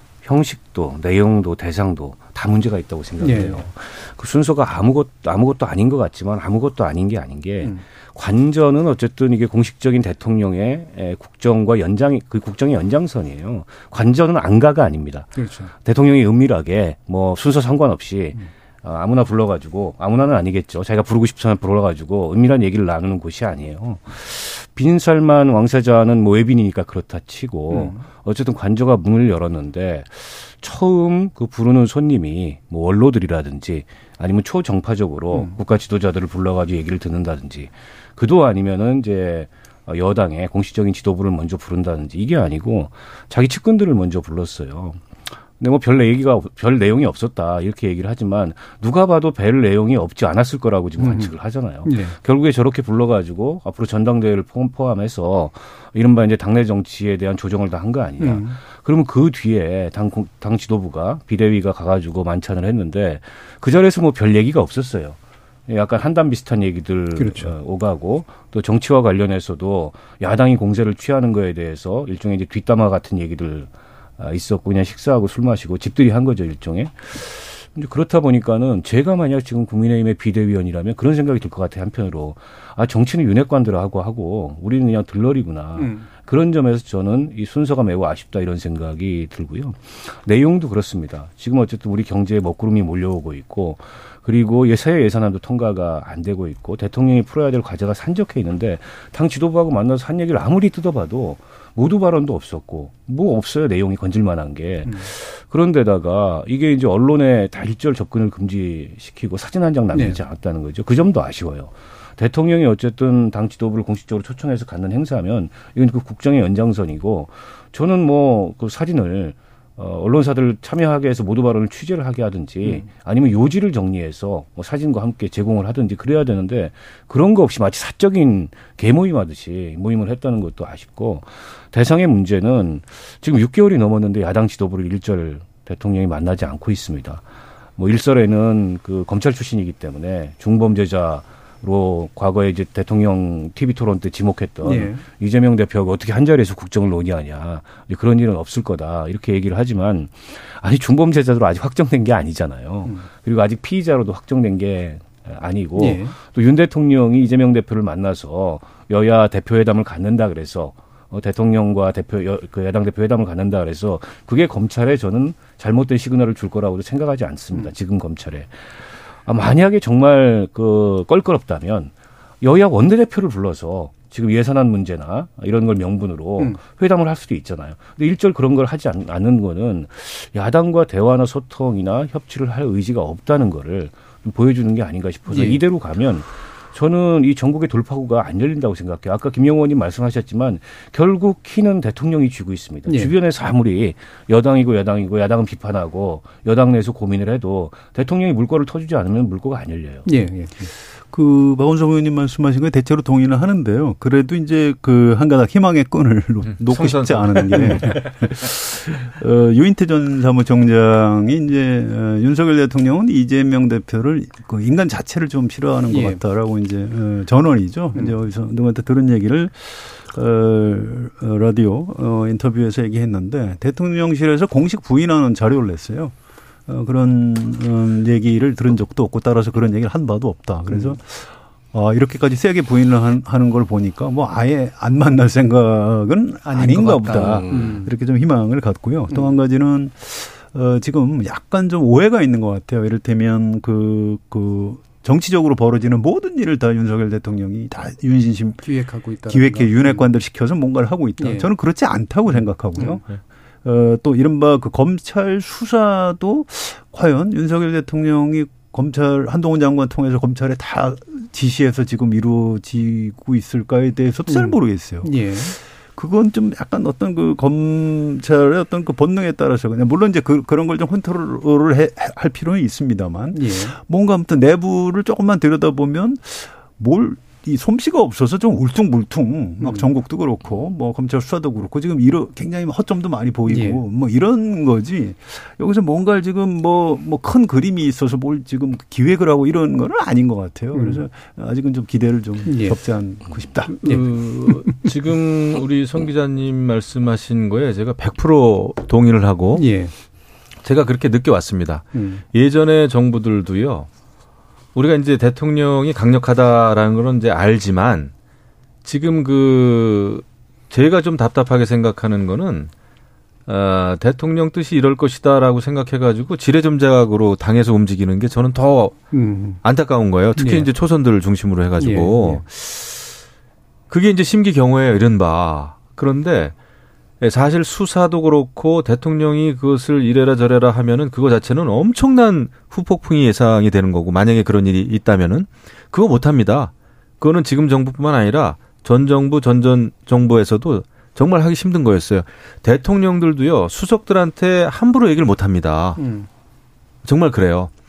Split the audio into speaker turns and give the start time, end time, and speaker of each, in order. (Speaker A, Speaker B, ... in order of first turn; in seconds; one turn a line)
Speaker A: 0.2-137.2
Speaker B: 3.2-3.6
Speaker B: 15.3-15.7
Speaker B: 27.7-28.1
Speaker B: 51.0-51.3
Speaker B: 51.8-52.1
Speaker B: 58.2-58.6
Speaker B: 67.2-67.5
Speaker B: 85.8-86.1
Speaker B: 109.9-110.2
Speaker A: 137.8-200.1
Speaker B: 144.6-145.0
Speaker B: 155.8-156.2
Speaker B: 185.3-185.6
Speaker B: 192.9-193.1
Speaker B: 200.1-200.7
Speaker C: 201.1-226.2
Speaker D: 206.6-208.1
Speaker B: 207.5-207.9
Speaker B: 215.9-216.2
Speaker C: 226.7-248.7
Speaker B: 236.4-237.9
Speaker B: 239.1-239.4
Speaker B: 248.6-250.1
Speaker C: 249.3-253.0
Speaker B: 251.2-251.5
Speaker C: 253.6-293.7
Speaker B: 264.3-265.6
Speaker B: 273.4-273.8
Speaker B: 279.6-279.9
Speaker B: 283.5-283.8
Speaker B: 290.7-291.0
Speaker B: 292.5-292.8
Speaker D: 293.7-299.7
Speaker B: 293.8-294.8
Speaker B: 299.6-299.9
Speaker D: 300.6-303.9
Speaker B: 301.9-302.2
Speaker D: 304.8-308.1
Speaker D: 308.8-312.7
Speaker D: 313.5-319.0
Speaker B: 319.1-319.6
Speaker D: 319.6-323.2
Speaker B: 320.4-320.7
Speaker B: 321.8-322.4
Speaker D: 323.9-326.6
Speaker D: 327.2-346.0
Speaker B: 346.0-346.3
Speaker D: 347.1-347.7